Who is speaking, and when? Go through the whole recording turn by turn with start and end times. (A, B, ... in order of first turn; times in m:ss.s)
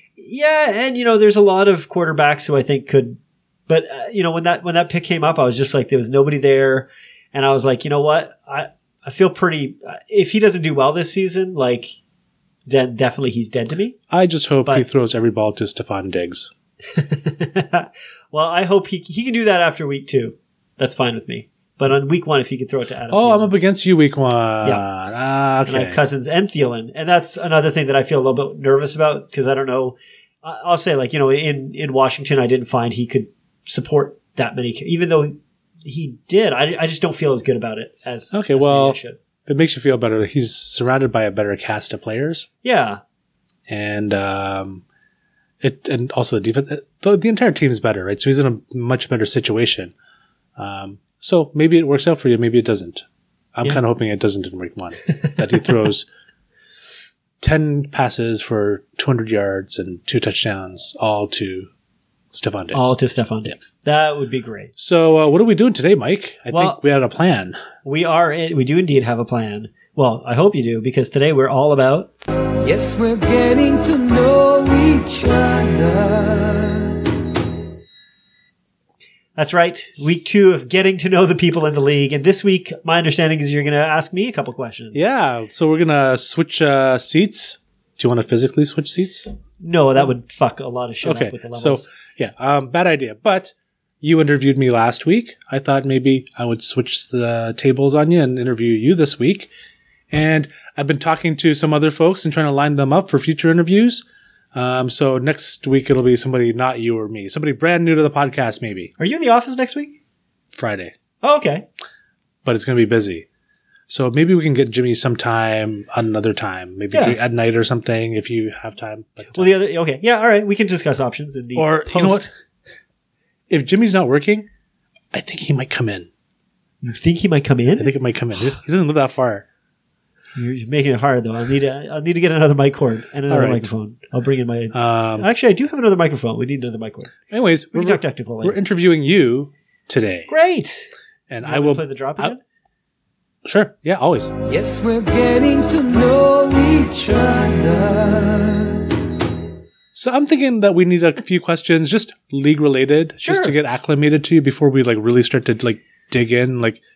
0:00.2-0:12.0 A
0:12.7-0:14.0 A
0:14.1-0:16.5 B
0:16.9-0:23.6 A
0:23.1-0:26.0 B
0:25.7-0:39.2 A
0:38.3-0:42.5 B
0:42.6-0:43.0 A
0:43.7-0:44.8 B
0:45.6-0:49.9 B
0:50.6-0:53.0 B
0:53.6-0:56.1 B
0:57.4-1:01.7 B
1:02.3-1:02.9 B
1:02.7-1:04.7 A
1:04.8-1:07.6 B
1:06.5-1:06.8 A
1:07.8-1:12.1 A
1:12.6-1:17.0 C
1:19.4-1:25.0 A
1:24.9-1:29.3 B
1:29.6-1:31.8 A
1:31.0-1:39.5 B
1:40.1-1:48.9 B
1:49.0-1:50.0 A
1:50.5-1:50.9 B
1:51.2-1:51.7 A
1:52.4-1:53.3 B
1:53.9-1:59.6 B
1:56.9-1:57.2 A
1:59.3-2:02.3 A
2:01.6-2:02.3 B
2:03.5-2:04.5 B
2:05.1-2:06.1 B
2:06.8-2:07.9 A
2:07.8-2:09.4 B
2:10.4-2:17.1 A
2:13.3-2:13.7 B
2:14.7-2:15.3 B
2:17.3-2:20.3 B
2:17.7-2:18.6 A
2:20.3-2:20.9 A
2:21.3-2:22.4 B
2:21.4-2:22.4 A
2:23.4-2:24.3 B
2:24.5-2:28.8 C
2:29.9-2:36.8 B
2:33.2-2:33.6 A